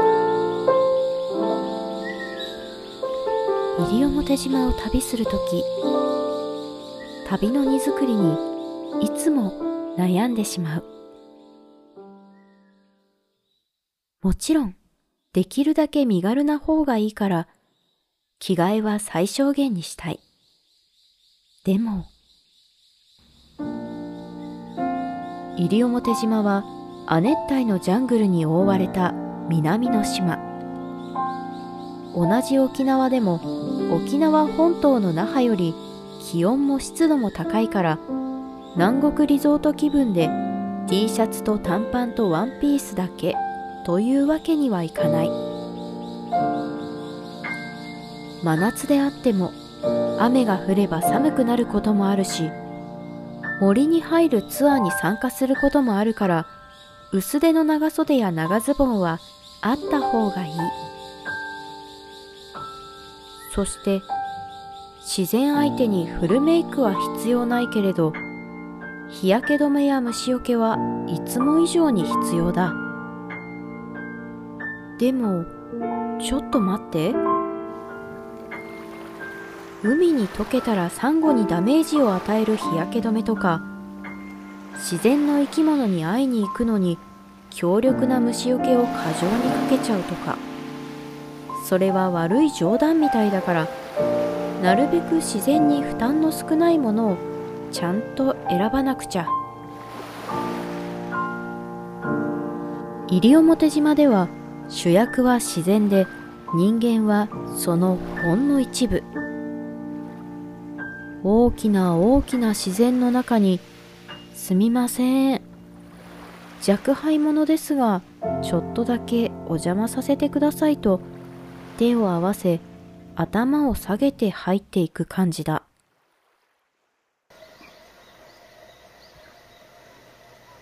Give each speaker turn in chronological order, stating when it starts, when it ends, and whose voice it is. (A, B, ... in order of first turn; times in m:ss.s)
0:03.8-0:05.7 A
0:07.2-0:08.4 A
0:09.0-0:10.9 A
0:14.2-0:14.8 A
0:15.3-0:17.5 A
0:18.4-0:20.2 A
0:21.6-0:22.1 A
0:25.6-0:30.4 A
0:32.1-0:38.0 A
0:38.8-0:40.4 A
0:40.9-0:45.4 A
0:48.4-0:49.6 A
0:50.2-0:52.6 A
0:53.6-0:56.5 A
0:57.1-1:00.8 A
1:03.5-1:04.1 A
1:05.0-1:08.2 A
1:09.1-1:12.8 A
1:15.0-1:15.5 A
1:16.2-1:17.2 A
1:19.8-1:23.7 A
1:24.8-1:30.4 A
1:31.5-1:33.7 A
1:34.6-1:39.4 A
1:43.1-1:49.1 A
1:51.2-1:53.7 A
1:54.3-1:55.5 A
1:56.6-2:01.1 A
2:01.8-2:02.6 A
2:03.2-2:05.7 A